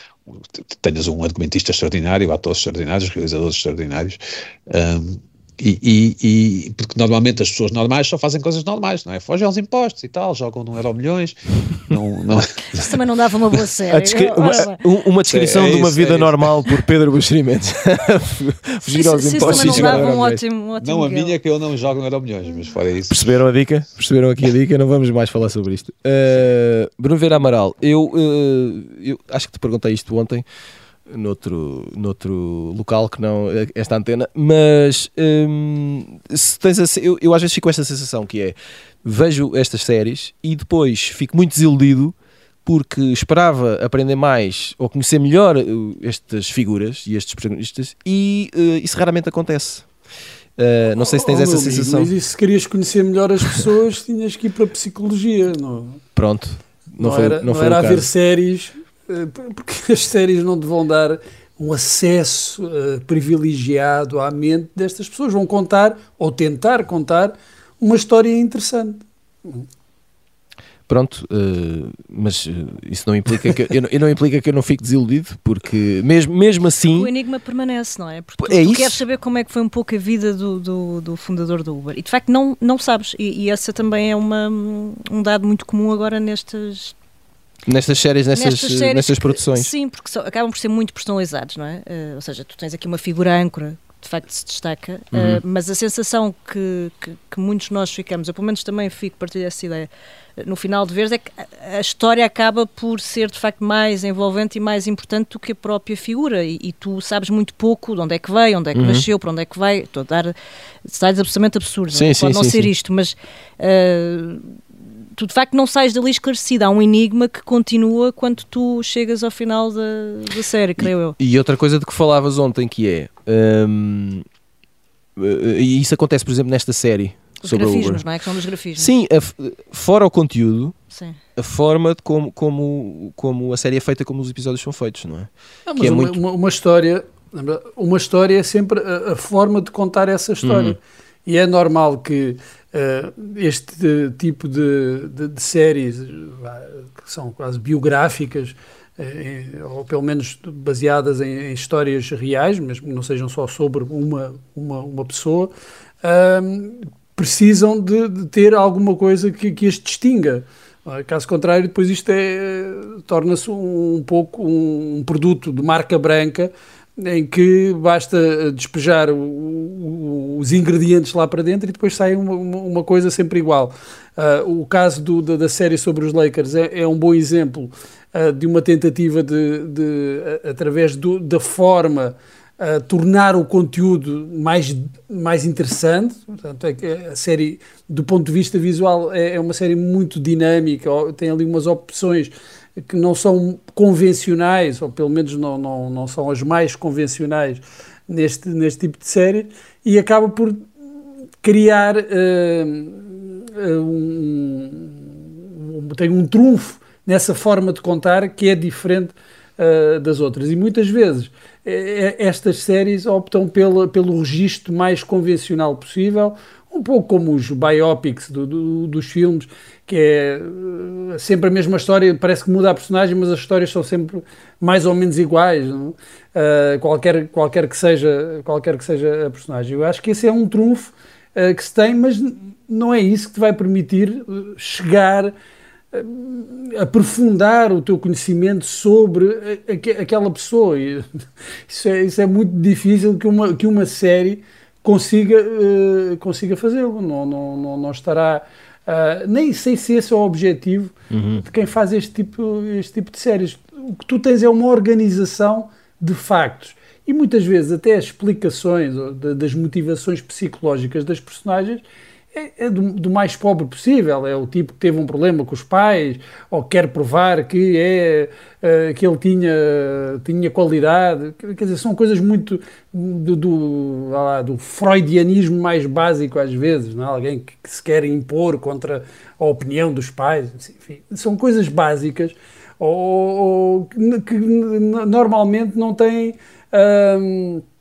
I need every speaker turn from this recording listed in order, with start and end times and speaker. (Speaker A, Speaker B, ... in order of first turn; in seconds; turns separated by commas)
Speaker A: 0.3-12.9, Speaker B: 12.7-14.8, Speaker C: 13.9-20.4, Speaker A: 15.3-16.6, Speaker B: 18.9-21.4, Speaker A: 19.4-20.1, Speaker A: 20.8-23.3, Speaker C: 23.1-30.5, Speaker C: 31.1-49.9, Speaker C: 50.6-52.1, Speaker D: 51.0-56.0, Speaker C: 56.1-58.1, Speaker D: 57.0-69.7, Speaker C: 70.9-77.1, Speaker B: 76.9-87.0, Speaker C: 78.4-79.0, Speaker C: 87.7-89.7, Speaker B: 88.3-110.3, Speaker C: 95.1-95.4, Speaker C: 108.7-109.1, Speaker B: 110.8-114.6, Speaker C: 111.9-112.7, Speaker B: 115.2-121.2, Speaker C: 120.8-124.2, Speaker C: 125.2-128.0, Speaker B: 127.4-128.9, Speaker C: 128.8-130.8, Speaker B: 130.9-131.2, Speaker C: 131.4-136.2, Speaker D: 135.7-155.5, Speaker C: 140.4-140.8, Speaker D: 156.0-200.7, Speaker D: 201.4-235.3, Speaker D: 235.9-241.1, Speaker D: 241.7-287.6, Speaker C: 251.1-251.4